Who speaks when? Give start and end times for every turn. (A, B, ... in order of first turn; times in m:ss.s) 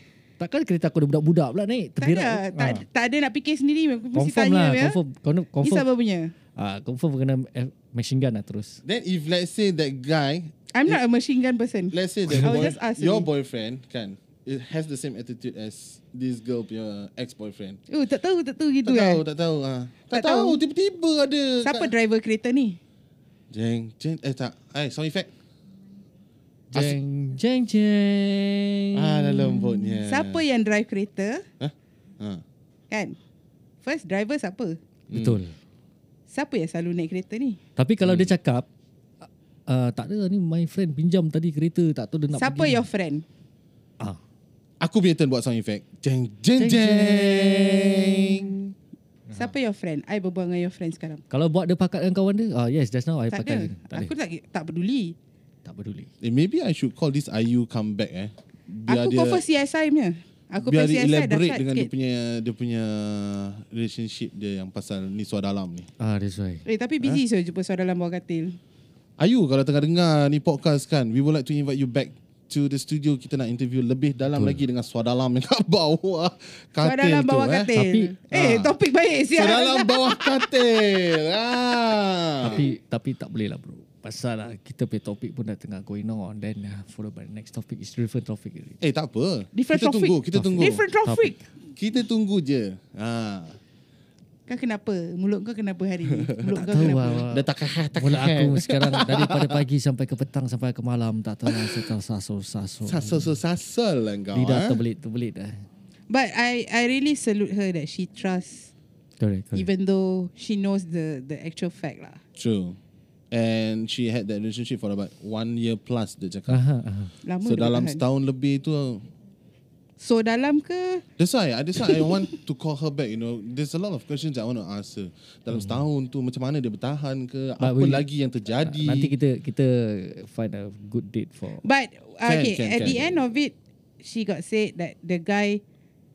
0:00.4-0:02.8 A
0:02.0-0:05.0 B
0:04.1-0:05.8 A
0:05.6-0:06.3 B
0:06.6-0:08.8 A
0:08.8-0:11.0 C
0:10.7-0:13.3 B
0:11.9-0:17.8 C
0:17.9-0:19.2 B
0:18.8-0:21.9 C
0:20.1-0:20.6 B
0:21.6-0:22.8 B
0:23.5-0:25.3 C
0:26.7-0:29.6 A
0:28.9-0:30.4 C
0:30.0-0:31.5 B
0:31.6-0:32.4 C
0:32.9-0:33.2 B
0:33.8-0:34.8 B
0:35.1-0:35.4 C
0:35.1-0:35.5 A
0:36.3-0:37.6 B
0:37.8-0:38.6 A
0:38.0-0:38.4 C
0:39.2-0:42.8 A
0:42.3-0:43.2 B
0:44.8-0:48.6 C
0:46.6-0:48.1 A
0:49.3-0:51.2 B
0:51.3-0:54.1 A
0:53.3-0:55.2 B
0:55.6-0:56.1 A
0:56.2-0:59.4 C
0:58.9-1:01.9 B
1:00.6-1:05.9 C
1:06.0-1:06.6 A
1:06.6-1:08.6 B
1:09.2-1:17.7 C
1:14.3-1:14.6 A
1:16.8-1:20.6 B
1:17.7-1:18.5 A
1:18.4-1:18.6 C
1:19.3-1:22.7 C
1:22.4-1:28.8 A
1:28.8-1:30.8 C
1:29.5-1:31.4 B
1:30.3-1:31.3 A
1:31.8-1:33.6 C
1:34.5-1:37.3 B
1:36.2-1:39.6 C
1:36.6-1:43.2 A
1:41.4-1:41.9 C
1:42.8-1:44.8 C
1:44.3-1:45.7 A
1:46.1-1:48.7 B
1:49.2-1:49.7 A
1:49.5-1:52.2 B
1:52.4-1:52.8 C
1:53.3-1:56.6 C
1:56.5-1:57.1 A
1:57.2-1:58.0 B
1:57.4-1:59.1 C
2:00.0-2:01.0 B
2:01.2-2:09.1 C
2:01.8-2:02.4 B
2:05.5-2:05.8 A
2:07.6-2:08.0 A
2:08.6-2:11.6 A
2:11.6-2:15.6 B
2:12.2-2:13.2 C